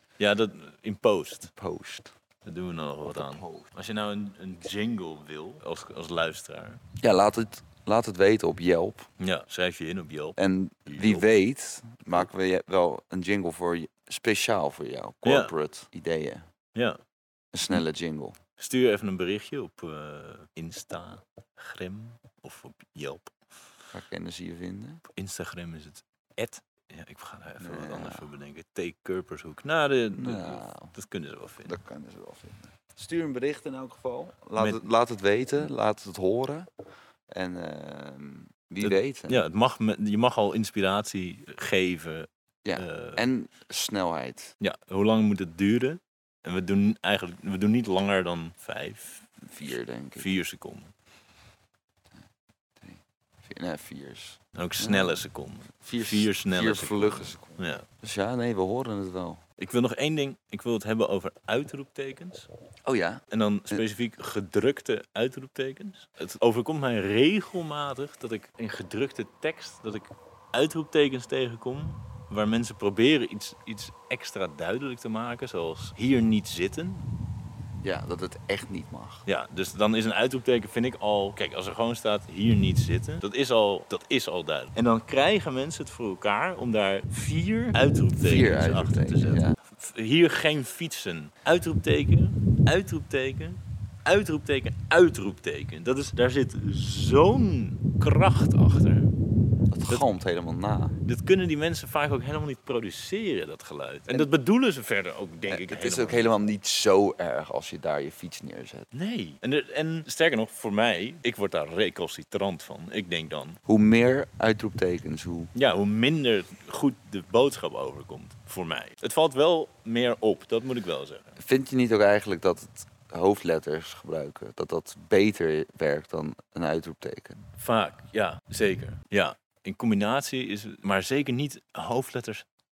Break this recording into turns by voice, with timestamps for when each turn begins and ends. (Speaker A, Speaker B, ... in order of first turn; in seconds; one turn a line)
Speaker A: 0.2-1.5
Speaker B: 1.5-2.1
Speaker A: 2.4-6.8
Speaker B: 3.1-3.7
Speaker B: 7.0-9.1
Speaker A: 9.2-11.3
Speaker B: 10.4-16.5
Speaker A: 15.2-15.5
Speaker A: 16.8-17.0
Speaker B: 17.5-18.4
Speaker A: 18.6-23.4
Speaker B: 23.9-25.0
Speaker A: 25.1-31.8
Speaker B: 27.6-28.3
Speaker B: 30.1-31.0
Speaker B: 31.6-36.7
Speaker B: 37.3-39.4
Speaker A: 38.8-43.2
Speaker B: 42.6-44.6
Speaker A: 44.6-49.4
Speaker B: 49.4-50.3
Speaker A: 50.1-50.9
Speaker B: 52.8-55.2
Speaker A: 54.6-57.9
Speaker B: 55.7-59.4
Speaker A: 59.6-62.5
Speaker B: 62.9-63.8
Speaker A: 63.3-77.1
Speaker B: 77.8-79.3
Speaker A: 79.3-99.1
Speaker B: 88.2-89.6
Speaker B: 99.7-101.0
Speaker A: 101.0-106.3
Speaker B: 105.5-108.9
Speaker A: 108.9-113.6
Speaker B: 113.7-115.5
Speaker A: 115.5-121.4
Speaker B: 121.4-127.5
Speaker A: 127.6-132.5